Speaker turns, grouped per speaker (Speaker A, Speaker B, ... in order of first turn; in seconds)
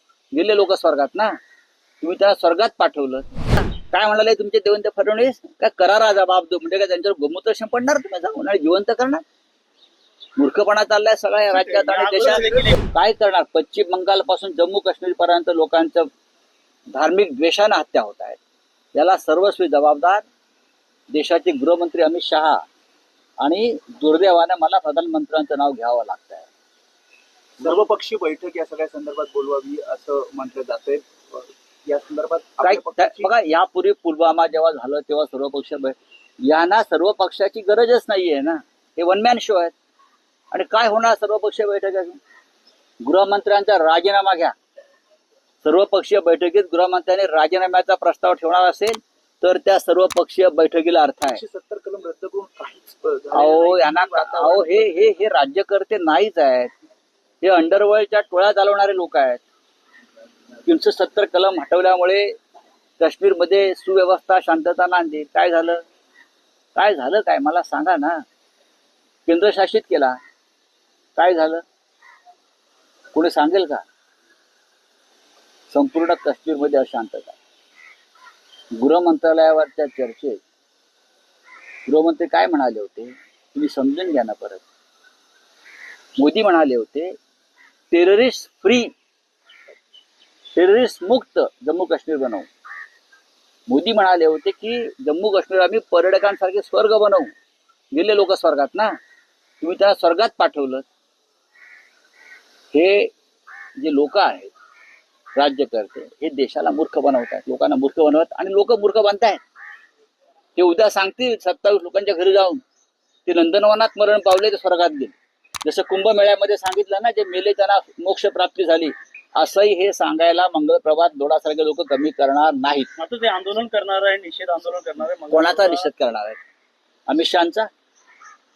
Speaker A: 0.3-1.4, 2.0-9.2, 10.4-16.1, 16.9-18.4, 18.9-20.2, 21.1-22.6, 23.4-26.5, 32.6-39.7, 40.5-42.2, 43.0-44.5, 45.6-51.4, 53.3-56.7, 57.4-59.4, 60.6-62.4, 63.0-65.8, 66.7-68.2, 69.2-70.2, 71.2-71.6, 73.1-73.8, 75.7-77.4, 78.8-80.4, 81.8-84.6, 86.2-87.2, 87.9-88.9, 90.5-92.5, 93.7-97.3, 97.9-99.0, 99.6-100.8, 102.7-103.1, 103.8-104.5, 105.3-109.4, 110.5-112.6, 113.2-122.9, 125.3-126.4, 127.1-127.7
Speaker B: 11.6-12.8, 123.0-125.9
Speaker C: 27.6-33.3, 51.2-55.1